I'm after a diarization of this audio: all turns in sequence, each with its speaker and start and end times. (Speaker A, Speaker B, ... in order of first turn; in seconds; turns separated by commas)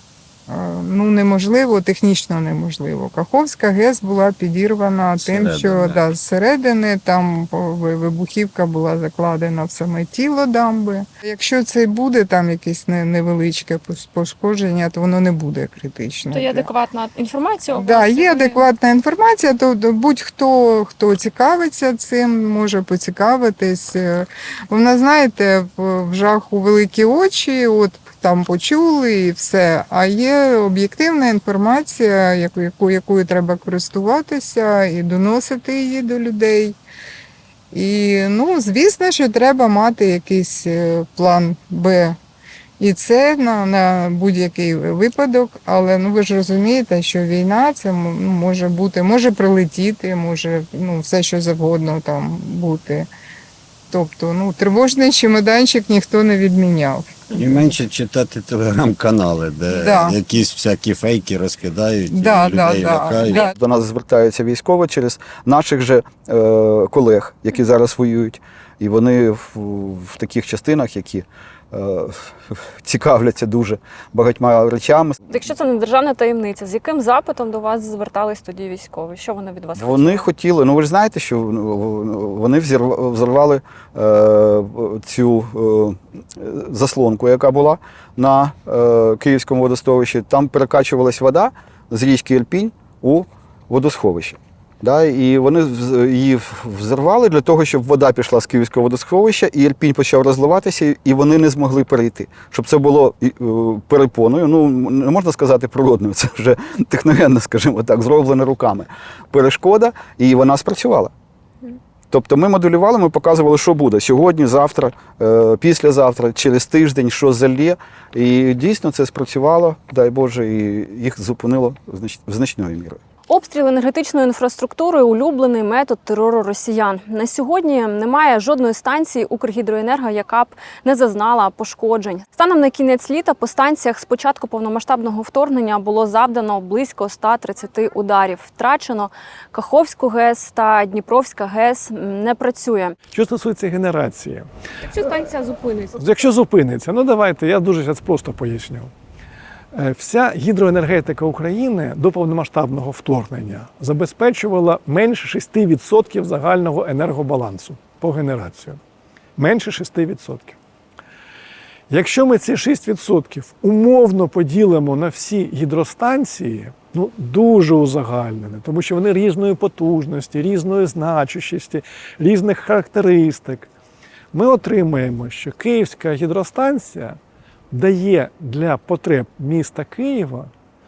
Speaker A: 0.5-16.7, Speaker B: 5.2-6.0, Speaker C: 16.3-18.6, Speaker A: 17.7-36.8, Speaker A: 37.7-42.2, Speaker A: 42.8-53.1, Speaker A: 53.9-57.7, Speaker B: 57.3-63.4, Speaker A: 59.7-60.2, Speaker A: 62.1-63.5, Speaker D: 63.2-75.4, Speaker C: 75.3-80.2, Speaker D: 79.8-111.1, Speaker D: 112.1-123.0, Speaker C: 123.3-142.9, Speaker E: 143.1-144.5, Speaker C: 145.3-145.9, Speaker E: 145.9-148.9, Speaker E: 149.7-158.8, Speaker E: 159.4-160.6, Speaker E: 161.9-173.7, Speaker E: 174.3-177.2, Speaker E: 177.7-180.5